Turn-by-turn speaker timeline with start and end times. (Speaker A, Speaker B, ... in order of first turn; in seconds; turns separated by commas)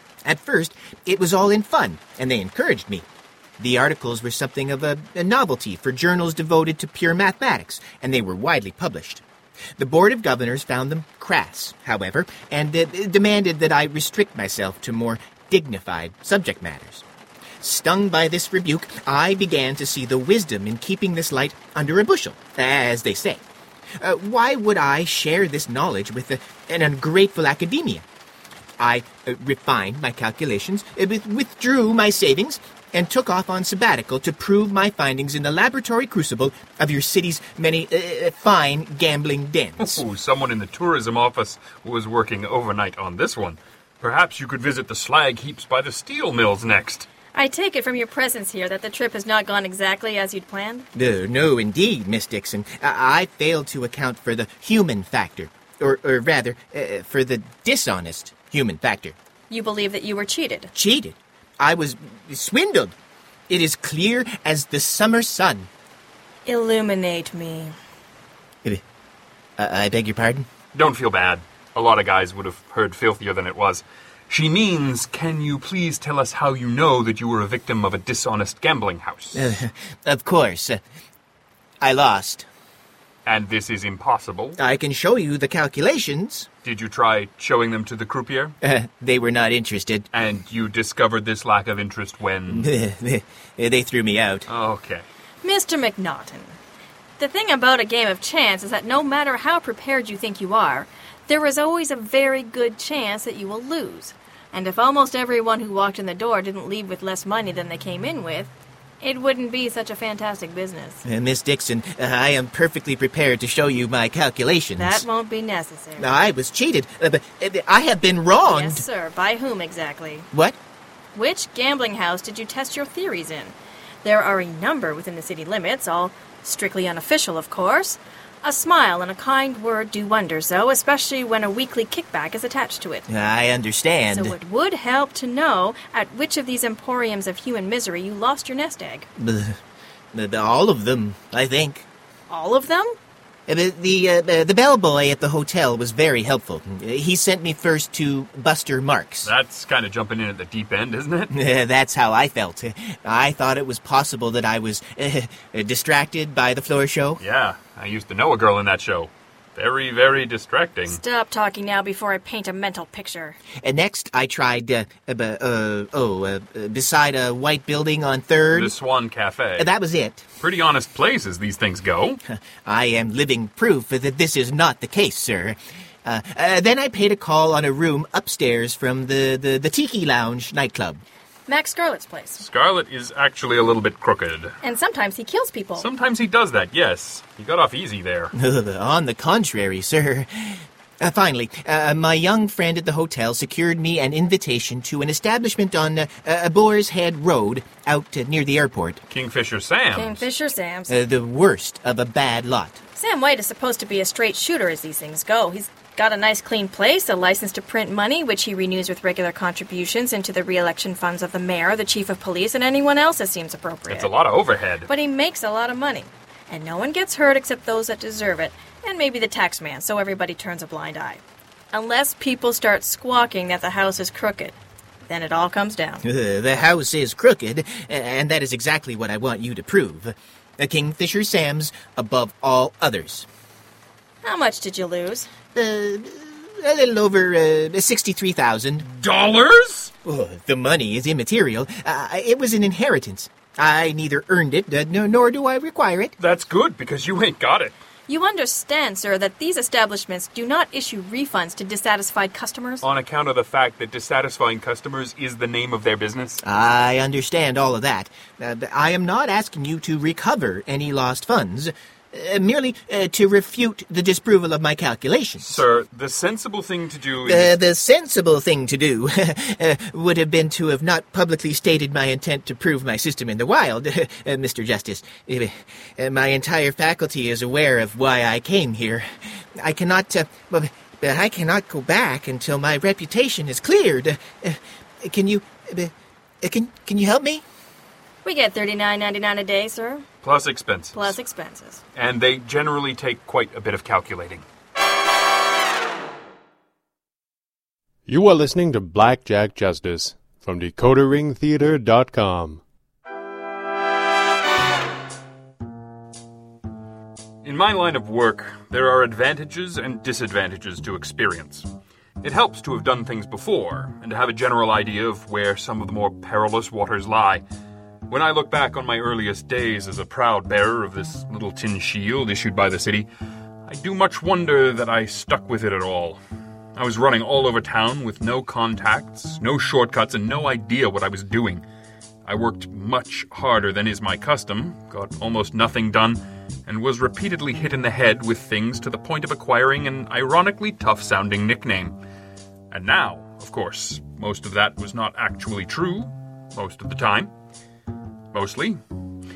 Speaker A: 0.2-3.1, Speaker A: 3.6-9.2, Speaker A: 9.8-17.0, Speaker A: 17.6-23.4, Speaker A: 24.0-28.0, Speaker A: 28.8-40.0, Speaker B: 39.8-47.1, Speaker C: 47.3-50.9, Speaker A: 51.0-59.1, Speaker C: 59.5-60.7, Speaker A: 60.7-63.0, Speaker A: 63.5-65.7, Speaker C: 66.5-67.7, Speaker A: 69.6-70.5, Speaker B: 70.7-79.5, Speaker A: 79.3-80.8, Speaker A: 81.8-82.5, Speaker B: 83.3-84.6, Speaker A: 84.6-86.5, Speaker B: 86.6-88.6, Speaker A: 88.6-90.1, Speaker B: 90.1-92.7, Speaker A: 92.5-94.5, Speaker B: 94.5-95.0, Speaker C: 95.4-96.6, Speaker C: 97.2-111.0, Speaker A: 111.0-115.0, Speaker C: 114.8-116.1, Speaker A: 116.0-118.8, Speaker C: 118.4-120.3, Speaker A: 120.3-120.6, Speaker C: 121.2-133.1, Speaker A: 133.1-134.3, Speaker C: 134.1-139.1, Speaker A: 139.2-139.6, Speaker A: 140.1-141.9, Speaker C: 142.3-143.0, Speaker A: 143.5-149.3, Speaker B: 149.2-151.3, Speaker A: 151.3-157.2, Speaker B: 157.2-161.0, Speaker C: 160.9-163.4, Speaker A: 163.6-168.7, Speaker B: 168.5-169.7, Speaker A: 169.6-170.2, Speaker B: 170.4-172.2, Speaker A: 172.3-181.0, Speaker C: 181.5-182.4, Speaker B: 182.4-184.6, Speaker C: 184.6-185.9, Speaker B: 185.8-188.3, Speaker A: 188.4-199.0, Speaker B: 199.1-200.2, Speaker C: 199.9-200.9, Speaker A: 200.9-202.8, Speaker C: 203.0-214.1, Speaker B: 213.9-214.9, Speaker C: 214.9-221.2, Speaker C: 221.7-224.6, Speaker C: 225.1-226.0, Speaker A: 226.1-233.3, Speaker C: 234.2-235.3, Speaker A: 235.6-238.8, Speaker B: 238.9-239.9, Speaker A: 240.1-246.2, Speaker B: 246.2-247.8, Speaker C: 248.1-252.8, Speaker B: 252.8-256.4, Speaker A: 256.4-265.6, Speaker B: 265.4-267.5, Speaker A: 267.2-279.1, Speaker A: 279.6-287.4, Speaker C: 288.2-290.1, Speaker B: 290.2-291.2, Speaker C: 290.9-291.8, Speaker B: 292.0-294.4, Speaker D: 298.1-302.6, Speaker B: 307.4-311.7, Speaker B: 312.2-317.4, Speaker B: 318.1-323.1, Speaker B: 323.7-326.2, Speaker B: 326.8-331.6, Speaker B: 332.3-342.0, Speaker B: 342.7-347.3, Speaker B: 348.3-348.8